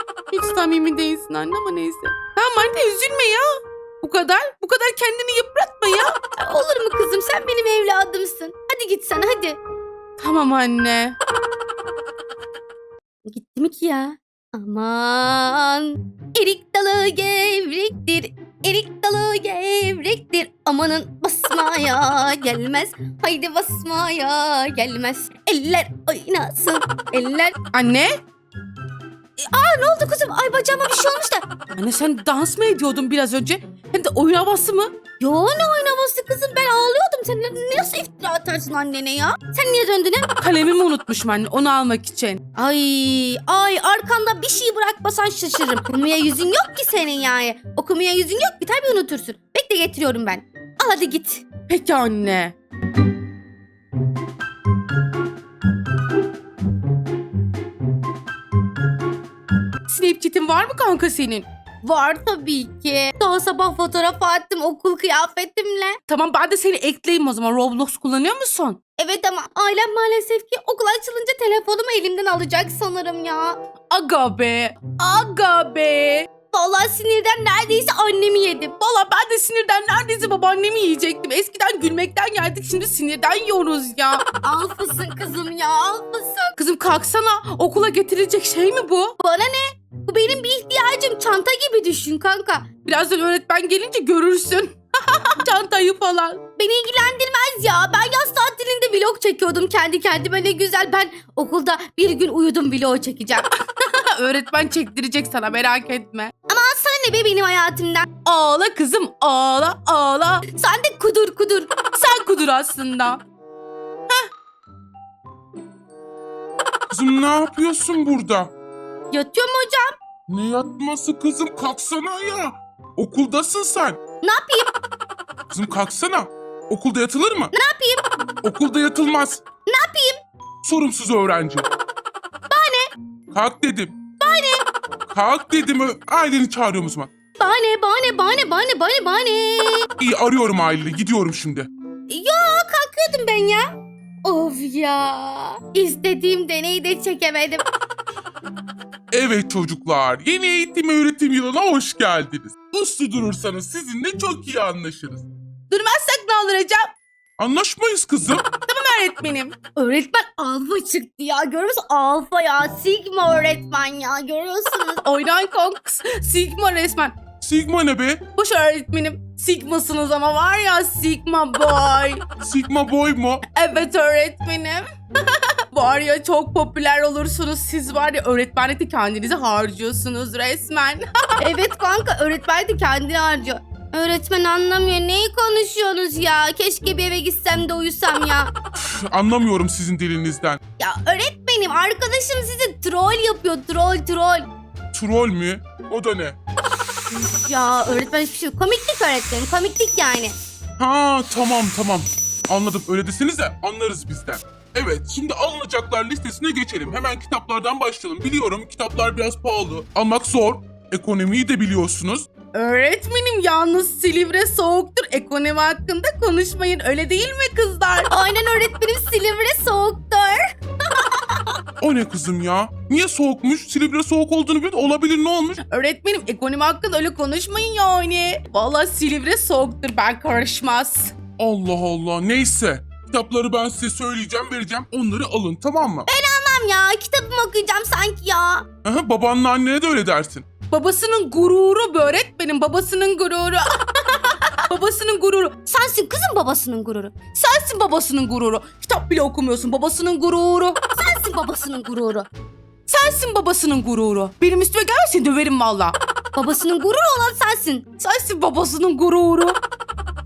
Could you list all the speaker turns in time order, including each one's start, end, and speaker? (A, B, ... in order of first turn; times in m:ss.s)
0:00.3-0:06.2 A
0:06.4-0:09.6 B
0:10.2-0:11.2 A
0:13.2-0:27.5 B
0:27.7-0:28.2 A
0:29.4-0:31.4 B
0:31.8-0:34.9 A
0:35.2-0:40.3 B
0:40.4-0:42.4 A
0:42.5-0:51.4 B
0:51.7-0:52.5 A
0:59.9-1:01.4 A
1:01.8-1:06.0 B
1:06.1-1:08.8 A
1:09.0-1:13.6 B
1:13.9-1:16.3 A
1:16.5-1:18.7 B
1:18.8-1:24.2 A
1:24.3-1:26.6 B
1:26.6-1:29.1 A
1:29.2-1:32.7 B
1:32.8-1:36.4 A
1:36.6-1:43.5 B
1:43.8-1:46.3 A
1:46.5-1:48.1 B
1:48.2-1:50.4 A
1:50.5-1:51.7 B
1:51.9-1:53.2 A
1:56.9-1:58.5 C
1:59.1-2:00.0 B
2:00.3-2:04.0 C
2:04.2-2:04.7 B
2:05.5-2:07.5 C
2:07.5-2:08.0 B
2:08.4-2:09.4 C
2:09.7-2:10.2 B
2:10.6-2:11.7 C
2:12.5-2:12.9 B
2:13.3-2:14.0 C
2:14.2-2:14.6 B
2:15.1-2:17.1 C
2:17.4-2:19.9 B
2:20.0-2:21.7 C
2:22.1-2:27.6 B
2:29.1-2:35.3 C
2:35.7-2:36.9 A
2:37.4-2:38.4 C
2:38.7-2:39.6 A
2:39.7-2:45.0 B
2:45.0-2:47.1 A
2:47.4-2:48.2 C
2:48.4-2:52.2 A
2:52.4-2:53.4 C
2:53.5-3:01.3 A
3:01.4-3:08.5 B
3:08.8-3:10.6 C
3:10.8-3:14.5 B
3:14.9-3:16.4 C
3:17.1-3:20.3 B
3:20.8-3:32.3 C
3:32.5-3:38.1 A
3:38.1-3:40.5 B
3:41.8-3:45.6 C
3:45.7-3:51.1 A
3:51.4-3:56.1 C
3:56.1-3:58.6 B
3:58.8-4:00.4 C
4:00.7-4:05.6 A
4:05.6-4:07.2 B
4:07.3-4:10.8 A
4:10.9-4:12.3 B
4:12.9-4:16.0 A
4:16.3-4:17.8 B
4:18.0-4:19.6 A